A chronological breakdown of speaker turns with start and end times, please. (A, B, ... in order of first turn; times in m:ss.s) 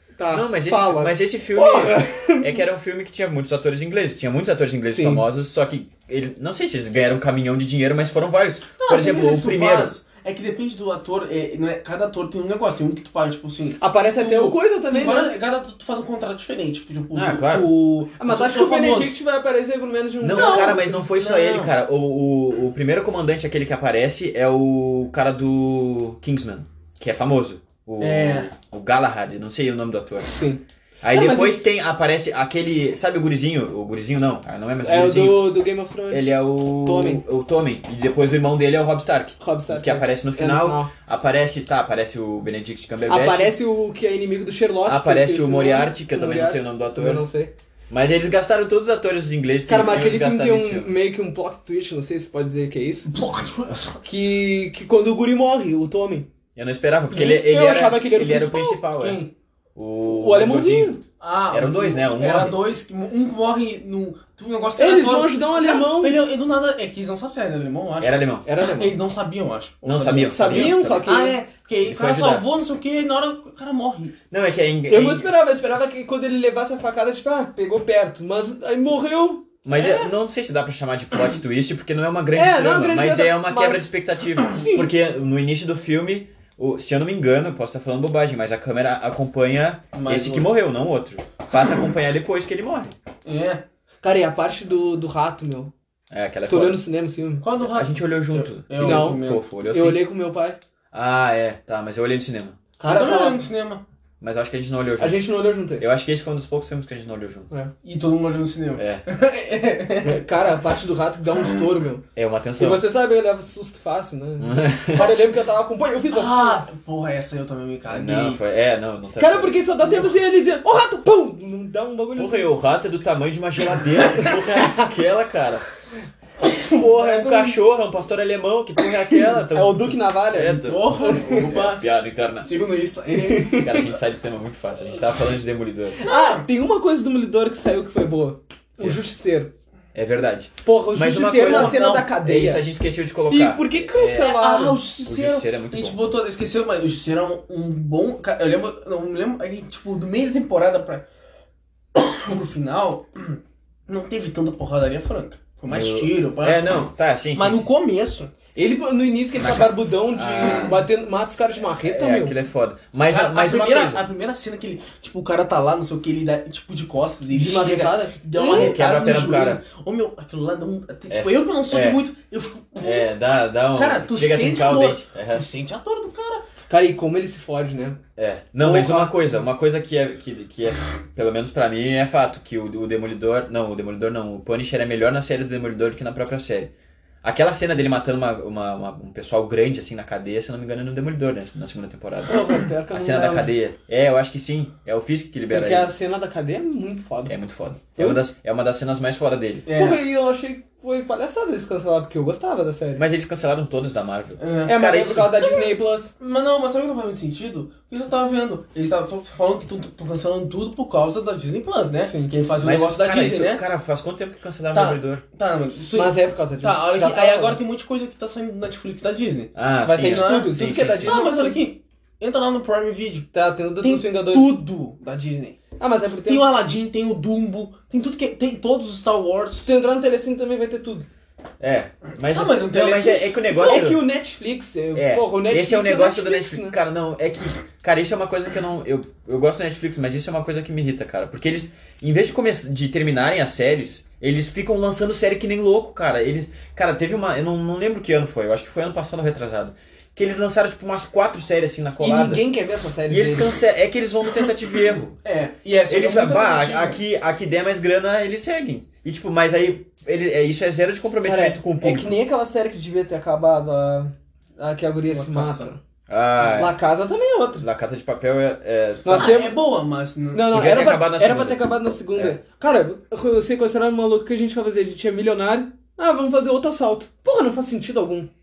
0:00.2-0:02.6 A
0:00.3-0:09.9 B
0:04.9-0:05.2 A
0:08.8-0:19.2 C
0:13.8-0:15.4 A
0:17.1-0:17.7 B
0:18.2-0:21.0 A
0:20.2-0:30.3 B
0:20.3-0:21.7 C
0:28.0-0:28.5 C
0:30.3-0:31.6 A
0:31.0-0:43.6 B
0:34.8-0:37.2 A
0:39.4-0:40.9 A
0:43.1-0:47.5 A
0:44.9-0:47.3 B
0:47.9-0:51.0 B
0:49.7-0:53.1 A
0:53.1-0:54.1 C
0:54.0-0:56.3 A
0:56.6-0:59.2 B
0:57.1-0:59.3 A
0:59.8-1:01.0 B
1:00.1-1:01.0 A
1:01.2-1:14.2 C
1:01.5-1:02.6 B
1:04.8-1:06.2 A
1:08.0-1:08.5 B
1:08.4-1:09.0 A
1:09.8-1:11.1 B
1:10.3-1:11.4 A
1:11.8-1:12.5 B
1:14.3-1:15.3 B
1:14.9-1:19.4 A
1:19.6-1:33.0 B
1:19.8-1:20.1 C
1:22.3-1:23.9 A
1:24.4-1:24.9 A
1:29.9-1:30.5 C
1:33.2-1:33.6 C
1:34.0-1:35.7 A
1:36.1-1:36.8 B
1:36.5-1:37.4 A
1:37.4-1:39.4 C
1:37.6-1:40.0 B
1:38.8-1:40.6 A
1:40.9-1:42.6 B
1:42.8-1:43.4 A
1:42.9-1:43.8 C
1:44.2-1:47.5 B
1:45.0-1:45.9 A
1:47.8-1:50.2 C
1:48.8-1:49.0 B
1:50.0-1:52.0 A
1:52.2-1:52.8 B
1:52.6-1:56.6 A
1:54.4-1:55.2 B
1:56.1-1:58.4 C
1:57.9-1:59.6 B
1:59.2-2:02.5 A
2:02.2-2:05.6 B
2:06.6-2:07.6 C
2:06.7-2:12.5 B
2:09.5-2:11.4 A
2:10.6-2:13.9 C
2:13.2-2:13.7 A
2:13.6-2:16.0 B
2:16.0-2:19.5 A
2:16.0-2:16.5 C
2:19.9-2:24.4 B
2:20.6-2:22.6 A
2:21.4-2:22.2 C
2:23.3-2:24.8 A
2:24.0-2:31.0 C
2:25.0-2:26.1 B
2:31.9-2:38.3 C
2:35.7-2:37.7 B
2:38.6-2:42.4 A
2:39.4-2:40.8 B
2:41.8-2:44.0 B
2:43.1-2:53.2 C
2:47.3-2:48.8 A
2:48.4-2:49.6 B
2:51.1-2:52.0 B
2:52.8-2:55.5 B
2:53.7-2:56.5 C
2:56.7-2:58.0 A
2:58.2-3:06.7 B
2:58.6-2:59.3 A
3:07.2-3:15.9 B
3:12.3-3:13.5 A
3:15.5-3:17.4 A
3:17.3-3:19.7 B
3:19.7-3:20.0 C
3:19.7-3:23.0 A
3:23.0-3:25.4 B
3:24.4-3:33.6 C
3:24.7-3:26.1 A
3:32.0-3:32.3 A
3:32.6-3:35.2 B
3:34.7-3:45.6 C
3:35.9-3:37.6 A
3:39.6-3:41.2 B
3:39.8-3:41.6 A
3:43.3-3:44.6 A
3:45.8-3:46.5 A
3:46.3-3:49.7 C
3:49.6-3:51.1 A
3:51.6-3:54.0 B
3:52.3-3:53.9 C
3:53.6-3:56.8 A
3:55.0-4:12.5 B
4:12.0-4:13.5 A
4:13.1-4:15.2 B
4:15.2-4:17.0 C
4:15.9-4:22.1 B
4:21.2-4:25.8 A
4:25.1-4:25.7 C
4:26.1-4:26.8 B
4:26.4-4:27.6 A
4:27.6-4:29.4 B
4:29.0-4:29.6 A
4:29.1-4:30.5 C
4:30.3-4:38.3 A
4:30.5-4:32.4 B